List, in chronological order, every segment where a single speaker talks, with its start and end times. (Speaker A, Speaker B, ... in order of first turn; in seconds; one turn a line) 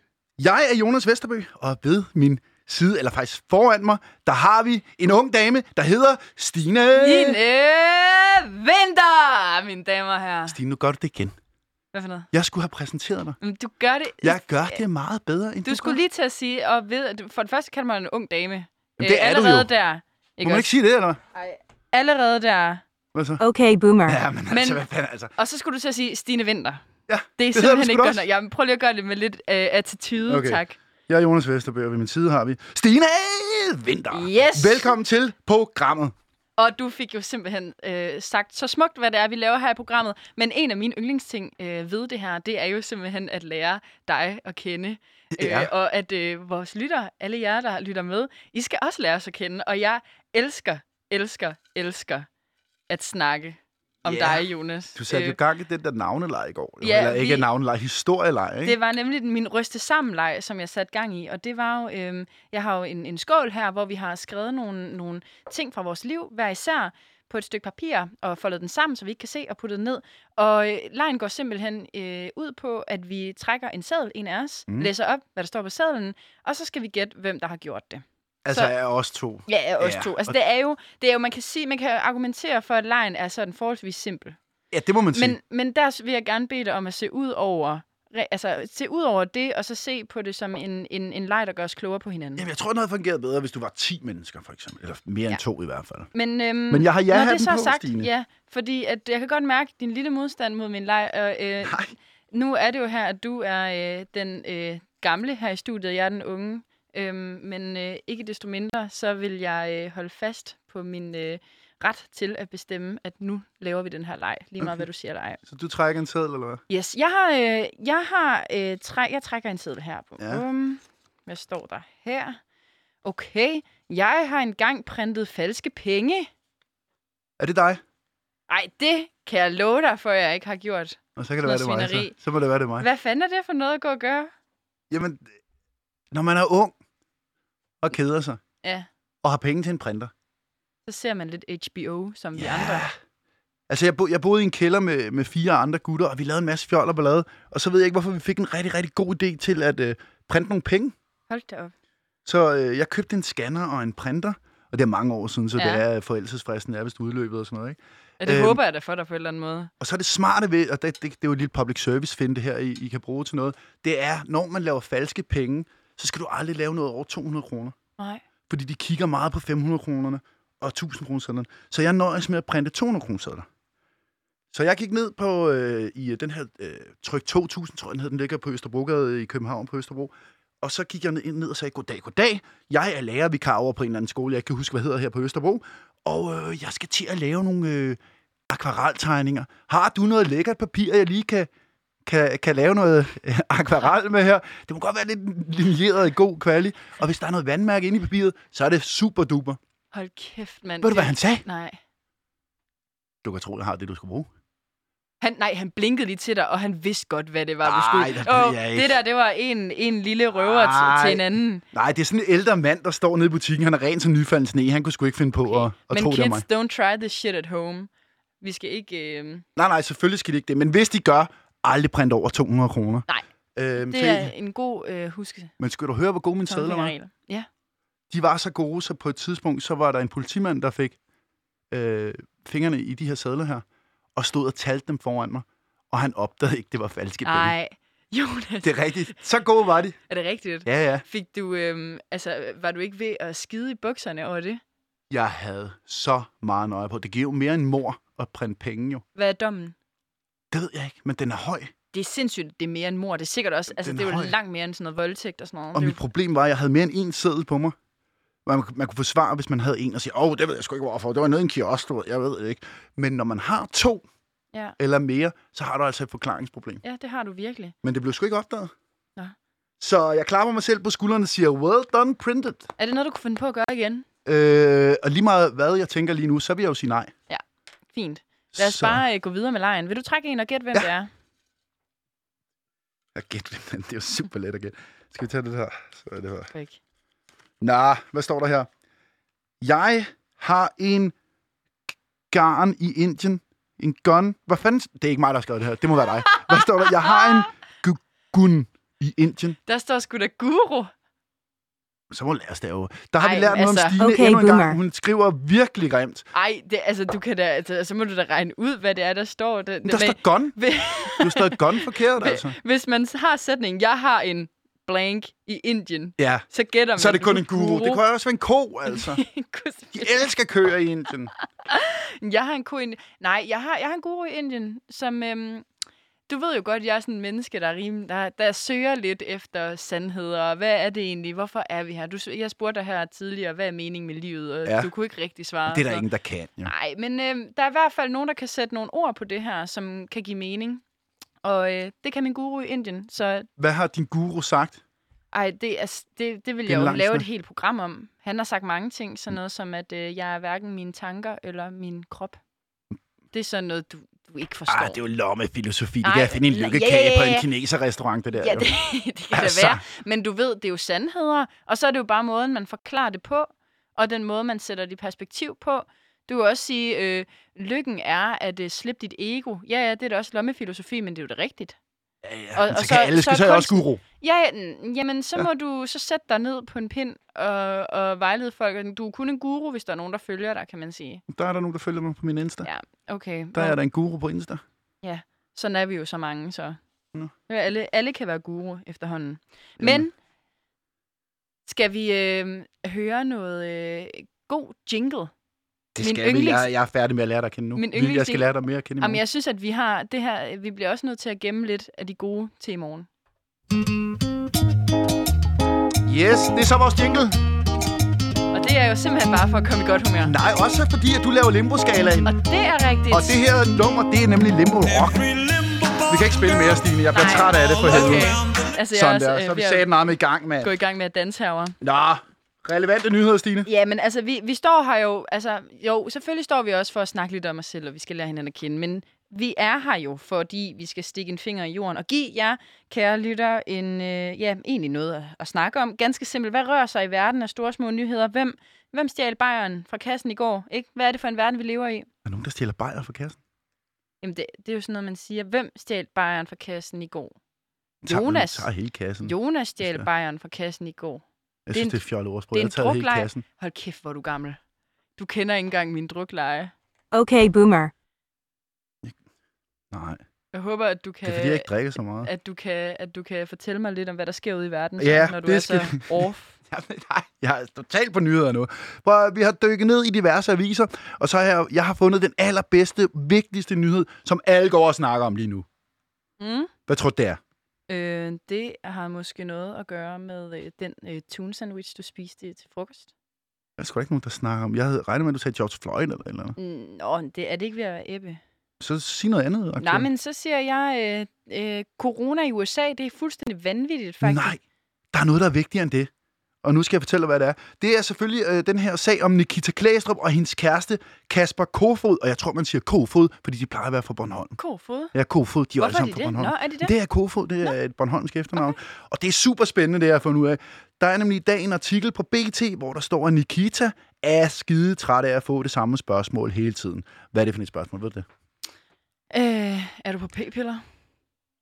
Speaker A: 0.4-7.4
Speaker B: 6.9-10.6
Speaker A: 10.5-11.3
Speaker B: 11.9-12.3
Speaker A: 12.3-13.4
Speaker B: 13.4-14.8
Speaker A: 14.2-16.0
Speaker B: 15.6-20.7
Speaker A: 19.0-19.7
Speaker A: 20.4-21.2
Speaker B: 21.3-22.8
Speaker A: 23.1-23.4
Speaker C: 23.4-24.2
Speaker A: 24.1-25.3
Speaker B: 24.5-24.8
Speaker B: 25.4-26.8
Speaker A: 27.1-28.2
Speaker B: 27.4-30.8
Speaker A: 30.3-36.1
Speaker B: 34.1-35.0
Speaker B: 36.6-52.3
Speaker A: 45.3-45.7
Speaker B: 52.9-55.4
Speaker A: 54.0-58.8
Speaker B: 56.8-57.5
Speaker B: 58.6-78.7
Speaker A: 78.4-80.3
Speaker B: 79.5-84.4
Speaker A: 84.7-85.4
Speaker B: 85.1-92.4
Speaker A: 92.4-96.1
Speaker B: 96.1-115.4
Speaker A: 96.7-98.1
Speaker A: 101.6-101.9
Speaker A: 114.6-114.8
Speaker A: 115.5-116.6
Speaker B: 116.7-122.4
Speaker B: 123.0-126.3
Speaker A: 127.4-127.8
Speaker B: 128.5-132.1
Speaker A: 131.2-132.9
Speaker B: 132.8-134.3
Speaker A: 134.9-135.3
Speaker A: 136.1-136.7
Speaker A: 137.8-138.4
Speaker A: 139.2-140.1
Speaker B: 140.8-142.9
Speaker A: 142.3-142.9
Speaker A: 143.7-150.9
Speaker B: 151.3-151.7
Speaker A: 152.2-158.6
Speaker B: 155.6-155.8
Speaker B: 158.2-159.7
Speaker A: 159.8-167.7
Speaker B: 168.0-168.2
Speaker A: 168.5-173.5
Speaker A: 174.5-191.5
Speaker A: 192.0-199.6
Speaker B: 199.9-201.8
Speaker A: 200.8-201.4
Speaker A: 203.2-204.3
Speaker B: 205.2-211.6
Speaker A: 207.6-209.0
Speaker A: 210.3-216.4
Speaker B: 215.4-217.9
Speaker B: 218.4-219.4
Speaker A: 219.6-224.3
Speaker B: 223.8-225.5
Speaker A: 225.6-226.9
Speaker B: 226.5-227.5
Speaker A: 228.1-231.0
Speaker A: 231.7-233.6
Speaker A: 234.1-237.5
Speaker B: 237.2-239.2
Speaker A: 238.6-240.0
Speaker B: 240.1-244.6
Speaker A: 240.7-241.0
Speaker A: 245.1-249.0
Speaker B: 249.2-249.8
Speaker A: 250.5-251.7
Speaker B: 251.9-256.0
Speaker A: 253.7-254.3
Speaker A: 255.7-257.7
Speaker A: 258.4-264.0
Speaker A: 264.8-266.8
Speaker B: 266.8-267.7
Speaker A: 267.8-268.7
Speaker A: 269.8-272.7
Speaker B: 272.8-274.1
Speaker A: 274.2-277.1
Speaker B: 277.3-281.1
Speaker A: 278.5-279.0
Speaker A: 283.1-286.5
Speaker B: 286.5-286.8
Speaker A: 287.6-288.7
Speaker A: 289.6-291.1
Speaker A: 292.3-299.6
Speaker B: 299.7-300.9
Speaker A: 302.1-306.2
Speaker B: 303.2-304.0
Speaker C: 304.0-304.8
Speaker B: 306.3-318.0
Speaker A: 309.8-312.6
Speaker A: 316.2-316.4
Speaker A: 317.0-319.2
Speaker B: 318.9-320.3
Speaker A: 319.9-321.3
Speaker B: 321.6-325.6
Speaker B: 326.3-336.0
Speaker A: 334.6-334.9
Speaker A: 335.7-336.7
Speaker B: 336.6-340.8
Speaker B: 341.4-343.5
Speaker A: 343.6-344.8
Speaker B: 345.3-352.4
Speaker A: 346.6-347.2
Speaker B: 353.3-355.0
Speaker A: 354.7-358.7
Speaker B: 356.0-357.5
Speaker B: 358.3-371.8
Speaker A: 359.3-359.8
Speaker A: 372.2-374.0
Speaker B: 372.6-381.2
Speaker A: 381.3-382.7
Speaker B: 382.6-383.8
Speaker A: 383.5-384.6
Speaker B: 385.0-386.8
Speaker B: 387.5-390.1
Speaker A: 389.8-390.1
Speaker B: 391.6-395.3
Speaker A: 395.9-399.2
Speaker B: 396.0-396.7
Speaker B: 397.7-398.4
Speaker B: 399.0-403.1
Speaker A: 406.0-407.4
Speaker B: 408.5-410.3
Speaker A: 410.2-412.4
Speaker B: 412.2-413.4
Speaker A: 413.1-418.4
Speaker B: 417.1-421.8
Speaker A: 418.9-420.7
Speaker A: 421.8-423.7
Speaker B: 423.6-442.1
Speaker A: 442.2-443.4
Speaker B: 444.2-447.3
Speaker B: 448.0-448.7
Speaker A: 448.0-450.1
Speaker B: 449.2-454.6
Speaker A: 451.7-453.4
Speaker B: 455.2-456.7
Speaker C: 457.1-457.9
Speaker A: 459.9-460.2
Speaker B: 460.5-461.7
Speaker A: 461.2-462.3
Speaker B: 462.2-466.6
Speaker A: 465.0-475.6
Speaker B: 476.4-476.7
Speaker A: 476.9-477.4
Speaker B: 477.9-483.1
Speaker A: 483.8-486.6
Speaker B: 486.6-488.4
Speaker A: 488.8-490.1
Speaker B: 489.8-494.6
Speaker A: 494.2-494.6
Speaker A: 495.1-496.1
Speaker A: 496.6-504.6
Speaker B: 504.6-505.1
Speaker A: 505.1-518.2
Speaker B: 505.8-506.9
Speaker B: 519.3-520.8